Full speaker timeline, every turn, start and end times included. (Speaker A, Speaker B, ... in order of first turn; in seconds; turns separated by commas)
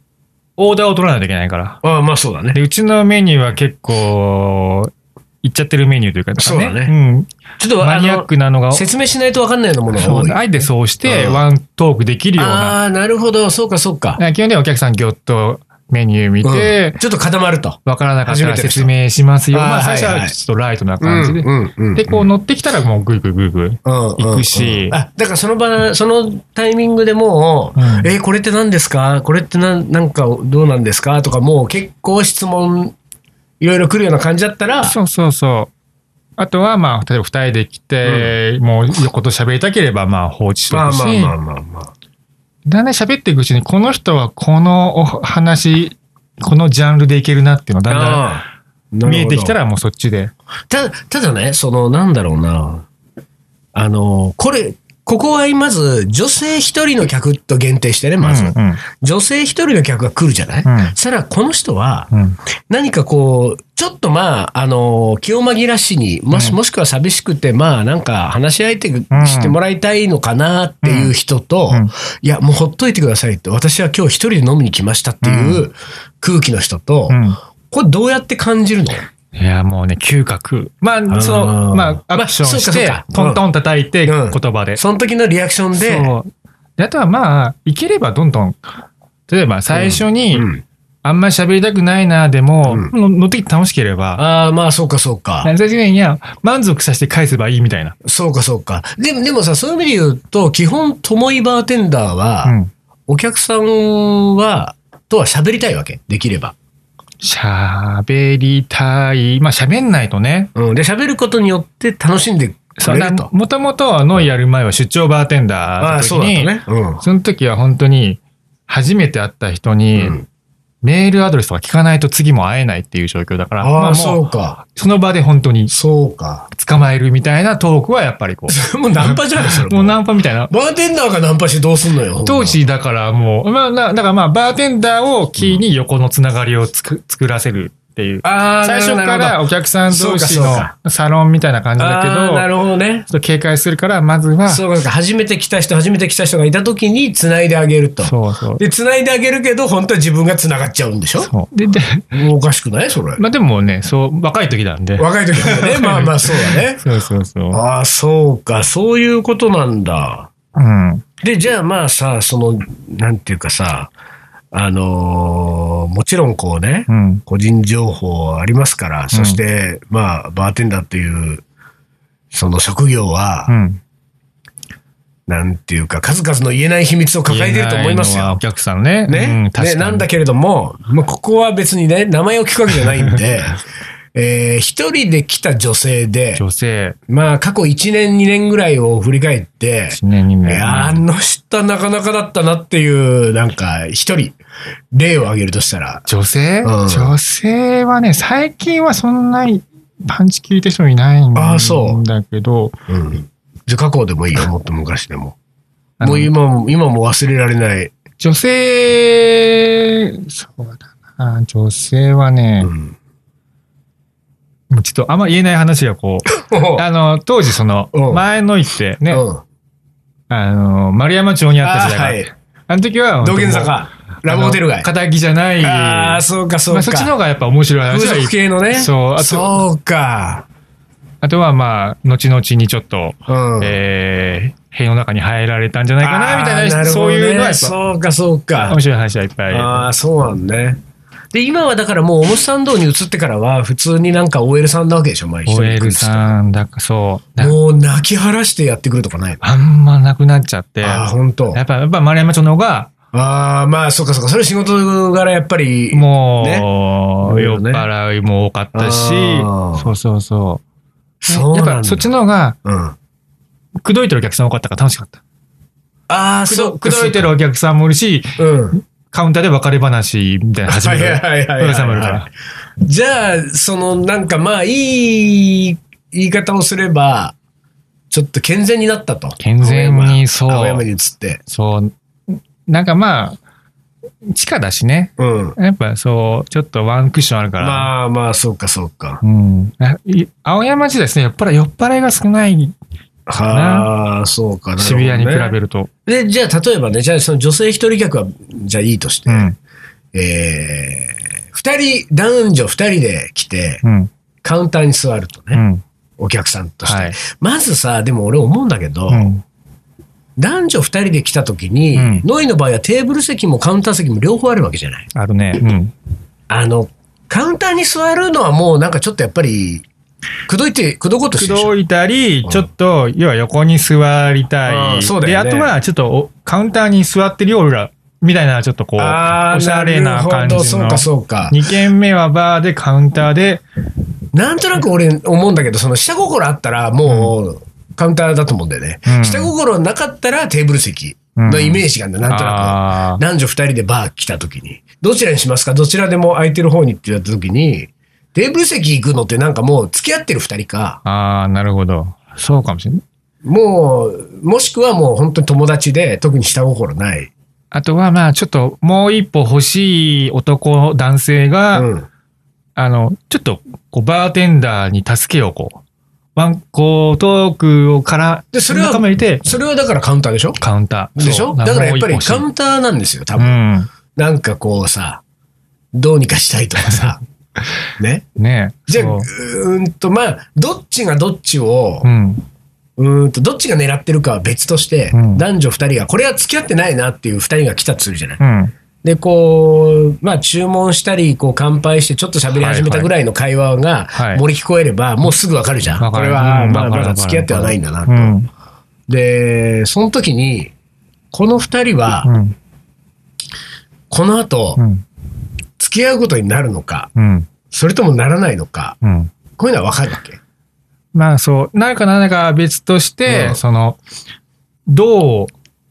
Speaker A: 0.6-1.8, Speaker B: 1.8-2.6, Speaker A: 2.5-8.8, Speaker B: 6.4-6.9, Speaker B: 7.6-10.4, Speaker A: 9.9-12.8, Speaker B: 11.0-11.4, Speaker B: 12.3-14.2, Speaker A: 14.2-17.0, Speaker B: 16.4-18.9, Speaker A: 17.9-25.0, Speaker B: 19.5-20.3, Speaker B: 21.0-22.2, Speaker B: 23.8-33.0, Speaker A: 27.8-28.1, Speaker B: 33.6-35.0, Speaker A: 34.8-35.7, Speaker A: 36.4-41.3, Speaker B: 38.0-38.3, Speaker B: 40.7-41.9, Speaker A: 42.6-48.4, Speaker B: 47.9-49.5, Speaker A: 49.0-50.3, Speaker B: 50.7-52.9, Speaker B: 53.7-62.1, Speaker A: 58.2-58.8, Speaker A: 60.6-60.9, Speaker A: 62.1-62.4, Speaker B: 62.7-77.2, Speaker A: 66.3-66.6, Speaker A: 69.1-69.6, Speaker A: 70.8-71.1, Speaker A: 75.2-75.7, Speaker A: 77.1-77.4, Speaker B: 77.7-79.0, Speaker A: 79.3-84.8, Speaker B: 81.1-83.4, Speaker B: 84.0-86.1, Speaker A: 85.7-88.6, Speaker A: 89.3-90.5, Speaker B: 89.7-90.6, Speaker A: 91.0-94.2, Speaker B: 92.7-92.9, Speaker B: 94.2-95.5, Speaker A: 95.4-97.9, Speaker B: 98.0-102.5, Speaker A: 102.4-102.7, Speaker B: 103.1-106.5, Speaker A: 107.2-110.5, Speaker B: 110.5-113.3, Speaker A: 112.8-120.2, Speaker B: 115.8-117.0, Speaker B: 120.0-120.2, Speaker A: 120.8-125.7, Speaker B: 123.6-124.6, Speaker B: 125.7-126.5, Speaker A: 126.5-130.5, Speaker B: 128.5-132.6, Speaker A: 132.2-142.5, Speaker B: 138.2-140.7, Speaker B: 141.8-143.1, Speaker A: 143.1-144.6, Speaker B: 144.5-151.3, Speaker A: 148.0-148.6, Speaker A: 151.2-152.1, Speaker B: 152.1-153.2, Speaker A: 153.2-157.6, Speaker B: 155.0-156.8, Speaker B: 157.5-160.3, Speaker A: 160.5-161.0, Speaker B: 161.2-163.9, Speaker B: 164.5-171.4, Speaker A: 166.9-167.2, Speaker A: 169.1-169.4, Speaker B: 172.3-173.5, Speaker A: 173.5-173.8, Speaker B: 175.3-178.4, Speaker A: 177.3-180.1, Speaker B: 179.1-183.6, Speaker B: 184.1-186.4, Speaker A: 186.3-187.0, Speaker B: 187.1-194.4, Speaker A: 189.9-191.0, Speaker B: 194.9-196.1, Speaker A: 196.1-202.7, Speaker B: 196.6-197.1, Speaker B: 201.3-202.0, Speaker B: 202.9-205.3, Speaker A: 206.0-206.3, Speaker B: 206.0-207.9, Speaker A: 208.2-212.7, Speaker B: 212.6-212.9, Speaker A: 214.7-219.2, Speaker B: 216.3-216.8, Speaker B: 217.9-218.2, Speaker B: 219.1-219.4, Speaker A: 220.3-229.6, Speaker B: 221.6-222.3, Speaker B: 223.2-224.9, Speaker B: 225.6-227.1, Speaker B: 227.9-230.4, Speaker A: 231.2-237.8, Speaker B: 233.3-233.8, Speaker B: 236.0-238.8, Speaker A: 238.7-239.9, Speaker B: 239.5-240.8, Speaker B: 241.3-246.3, Speaker A: 245.4-247.6, Speaker B: 247.4-249.4, Speaker A: 249.4-252.9, Speaker B: 250.8-251.6, Speaker B: 253.1-256.7, Speaker A: 255.9-260.6, Speaker B: 257.2-257.9, Speaker B: 258.7-259.9, Speaker B: 261.2-262.1, Speaker A: 261.3-262.6, Speaker B: 262.6-262.9, Speaker A: 263.8-265.2, Speaker B: 266.1-267.3, Speaker A: 266.4-272.3, Speaker B: 268.4-268.8, Speaker B: 270.7-272.3, Speaker B: 272.8-277.3, Speaker B: 278.1-281.4, Speaker A: 279.4-280.8, Speaker A: 281.5-283.4, Speaker A: 284.2-287.9, Speaker B: 285.2-285.6, Speaker B: 287.6-289.2, Speaker A: 289.2-292.8, Speaker B: 293.3-295.5, Speaker A: 293.5-293.9, Speaker A: 294.8-295.9, Speaker B: 296.1-299.5, Speaker A: 299.3-299.6, Speaker B: 300.1-303.8, Speaker A: 303.8-304.1, Speaker B: 304.4-305.6, Speaker A: 305.5-305.8, Speaker B: 306.2-309.3, Speaker A: 306.9-307.2, Speaker A: 309.1-309.4, Speaker B: 310.4-315.1, Speaker A: 311.9-312.2, Speaker A: 315.1-315.9, Speaker B: 316.5-319.9, Speaker B: 320.5-321.7, Speaker A: 321.3-333.6, Speaker B: 324.6-325.7, Speaker B: 329.0-331.6, Speaker B: 334.3-351.0, Speaker A: 337.1-337.3, Speaker A: 339.1-339.5, Speaker A: 341.4-343.2, Speaker A: 351.0-353.0, Speaker B: 353.4-357.3, Speaker A: 357.7-361.9, Speaker B: 361.7-362.1, Speaker A: 362.8-365.8, Speaker A: 366.4-369.4, Speaker B: 368.5-370.6, Speaker A: 370.6-372.4, Speaker B: 371.1-373.6, Speaker A: 373.4-373.9, Speaker B: 374.1-375.2, Speaker B: 375.9-377.2, Speaker B: 378.0-378.2, Speaker A: 378.4-379.3, Speaker B: 378.9-382.1, Speaker A: 382.0-382.4, Speaker B: 383.0-388.4, Speaker A: 385.1-385.4, Speaker A: 388.4-388.7, Speaker B: 389.0-398.3, Speaker A: 392.5-393.1, Speaker A: 394.1-394.4, Speaker A: 396.0-398.5, Speaker B: 399.1-400.7, Speaker B: 401.3-402.3, Speaker A: 402.2-402.6, Speaker B: 404.1-404.8, Speaker A: 404.8-405.0, Speaker B: 405.8-407.1, Speaker A: 407.1-407.5, Speaker B: 407.7-409.0, Speaker A: 409.0-409.3, Speaker B: 409.6-410.4, Speaker A: 411.1-414.0, Speaker B: 413.3-413.6, Speaker A: 414.9-415.5